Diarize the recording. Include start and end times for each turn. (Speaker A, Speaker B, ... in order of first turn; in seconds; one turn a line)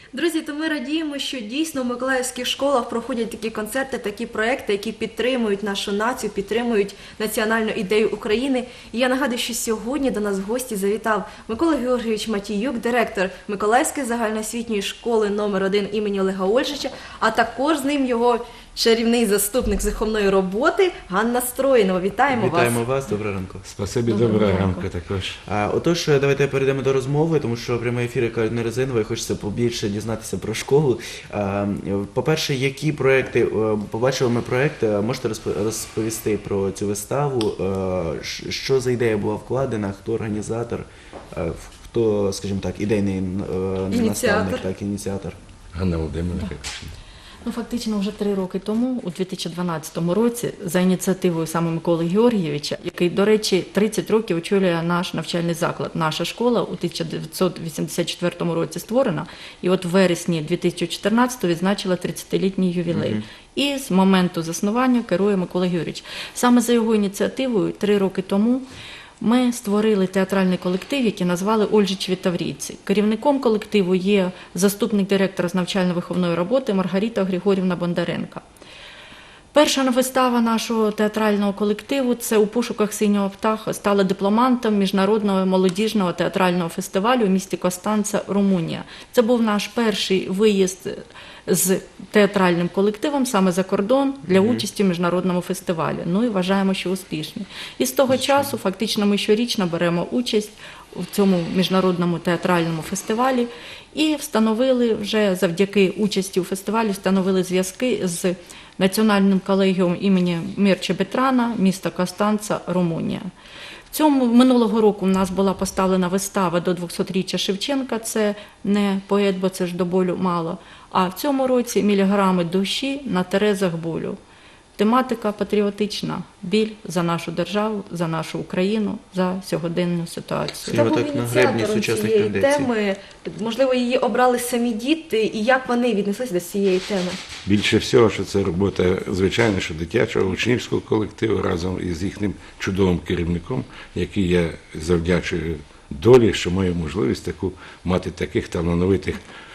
Speaker A: 0.1-22.8
Speaker B: 22.3-23.6
Speaker C: 23.6-25.4
Speaker D: 24.1-24.8
Speaker B: 25.5-45.4
Speaker A: 43.9-44.6
Speaker C: 45.7-46.9
Speaker D: 47.4-68.7
Speaker B: 62.9-63.2
Speaker D: 69.2-78.4
Speaker D: 79.5-113.3
Speaker B: 94.3-94.6
Speaker D: 113.9-124.2
Speaker D: 124.8-130.8
Speaker B: 130.7-132.7
Speaker A: 130.7-137.2
Speaker C: 137.4-149.2